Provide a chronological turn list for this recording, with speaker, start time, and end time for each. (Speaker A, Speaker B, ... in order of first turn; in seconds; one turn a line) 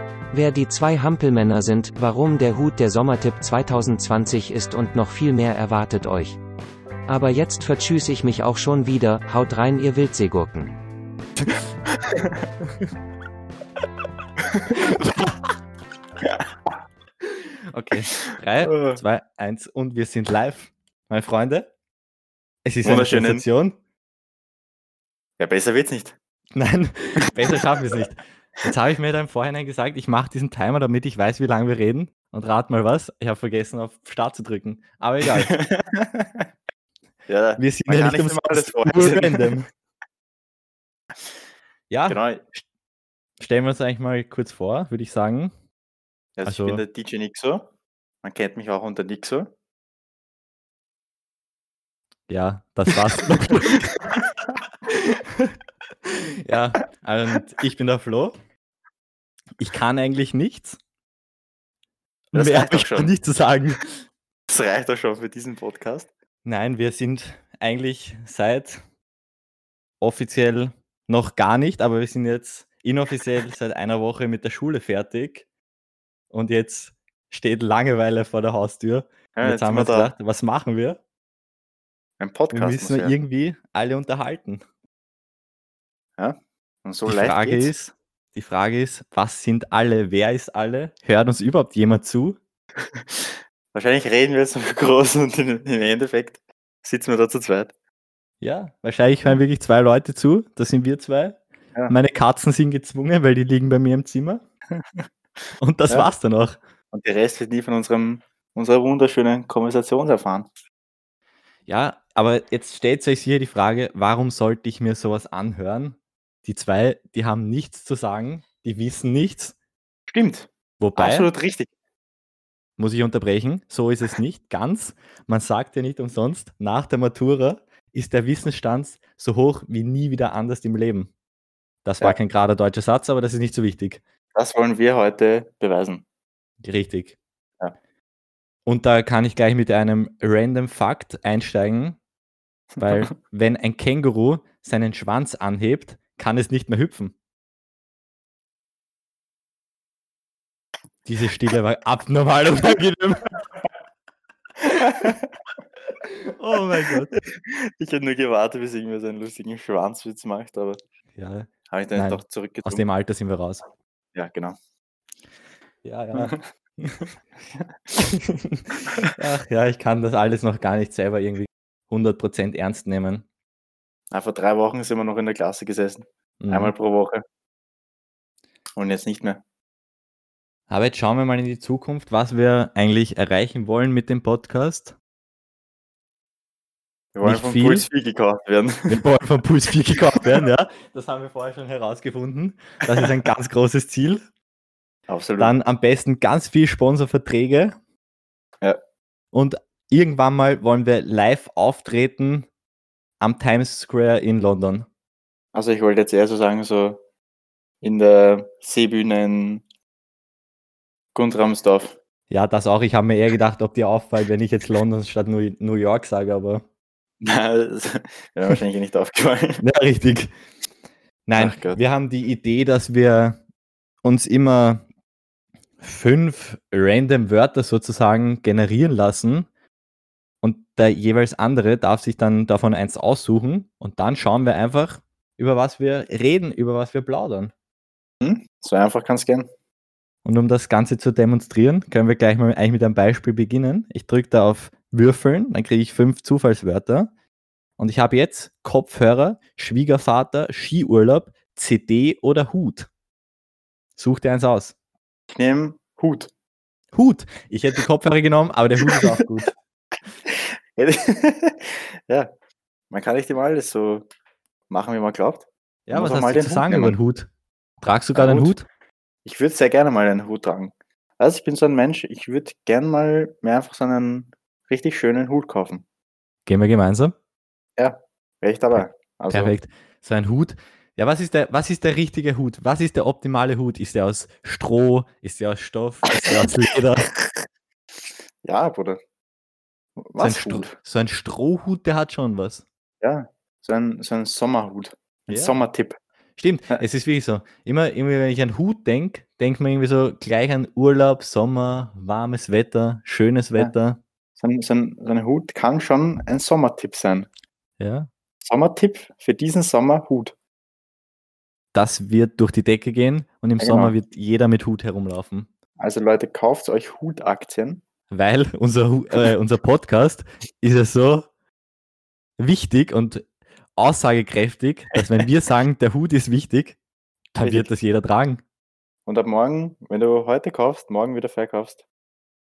Speaker A: 0.3-6.4
Speaker A: 7.1-10.8
Speaker B: 12.0-12.3
Speaker B: 14.5-14.8
Speaker C: 14.8-15.3
Speaker C: 17.7-21.7
Speaker B: 18.6-19.0
Speaker C: 22.6-23.8
Speaker B: 22.8-23.4
Speaker B: 25.4-26.2
Speaker C: 26.6-35.5
Speaker B: 35.4-36.5
Speaker B: 37.3-39.5
Speaker C: 37.6-39.7
Speaker C: 41.9-42.2
Speaker B: 42.1-42.4
Speaker C: 43.4-45.5
Speaker B: 46.4-47.7
Speaker C: 46.5-46.8
Speaker B: 48.2-49.5
Speaker C: 52.3-54.1
Speaker C: 54.9-55.5
Speaker C: 56.1-58.4
Speaker C: 59.6-60.8
Speaker C: 62.3-64.0
Speaker B: 62.3-63.1
Speaker B: 64.5-66.1
Speaker C: 66.5-68.8
Speaker C: 70.0-75.5
Speaker C: 76.3-81.0
Speaker B: 79.4-80.1
Speaker B: 82.2-83.2
Speaker C: 82.5-84.6
Speaker B: 86.2-87.7
Speaker C: 87.1-92.4
Speaker B: 92.9-97.7
Speaker C: 98.4-104.4
Speaker B: 104.7-105.1
Speaker C: 105.6-106.6
Speaker B: 106.9-110.5
Speaker C: 111.7-119.6
Speaker B: 120.1-121.7
Speaker C: 120.8-121.3
Speaker C: 122.8-131.1
Speaker C: 131.8-134.0
Speaker B: 134.3-136.0
Speaker C: 136.6-137.2
Speaker C: 138.7-142.0
Speaker C: 142.8-147.1
Speaker C: 151.1-153.3
Speaker B: 154.6-155.3
Speaker C: 156.0-157.2
Speaker B: 157.2-160.8
Speaker C: 161.2-163.7
Speaker B: 161.7-162.8
Speaker B: 164.2-164.6
Speaker C: 165.8-167.1
Speaker B: 166.1-166.4
Speaker C: 168.0-173.2
Speaker B: 174.1-177.2
Speaker C: 176.4-176.7
Speaker B: 178.8-179.4
Speaker C: 180.7-184.9
Speaker B: 187.1-189.0
Speaker C: 187.2-187.9
Speaker C: 188.9-194.2
Speaker B: 195.1-195.5
Speaker C: 195.4-197.8
Speaker C: 199.3-202.5
Speaker C: 203.2-204.9
Speaker B: 205.5-207.0
Speaker B: 207.8-209.6
Speaker B: 211.2-212.0
Speaker C: 212.3-216.6
Speaker B: 217.2-219.6
Speaker C: 219.6-220.3
Speaker C: 221.3-223.4
Speaker B: 221.4-221.8
Speaker C: 224.0-224.8
Speaker C: 225.8-229.5
Speaker C: 230.4-237.5
Speaker B: 238.2-239.5
Speaker C: 240.2-247.1
Speaker C: 247.8-252.9
Speaker C: 254.0-254.8
Speaker B: 255.3-256.3
Speaker C: 256.9-259.5
Speaker B: 260.3-262.3
Speaker B: 262.9-264.1
Speaker B: 264.7-267.0
Speaker C: 265.9-267.3
Speaker C: 267.8-268.7
Speaker B: 268.1-268.6
Speaker B: 269.2-275.8
Speaker C: 276.5-277.1
Speaker B: 277.8-279.6
Speaker C: 279.3-287.1
Speaker B: 288.4-289.0
Speaker B: 290.0-290.8
Speaker C: 290.2-292.6
Speaker B: 293.0-296.0
Speaker C: 295.3-295.6
Speaker C: 296.4-304.0
Speaker B: 304.4-307.3
Speaker C: 307.8-308.1
Speaker B: 308.4-310.3
Speaker C: 311.7-315.5
Speaker B: 313.6-313.9
Speaker B: 315.8-317.8
Speaker C: 318.1-321.3
Speaker C: 322.4-326.8
Speaker C: 327.4-328.4
Speaker B: 327.4-327.7
Speaker B: 329.1-331.9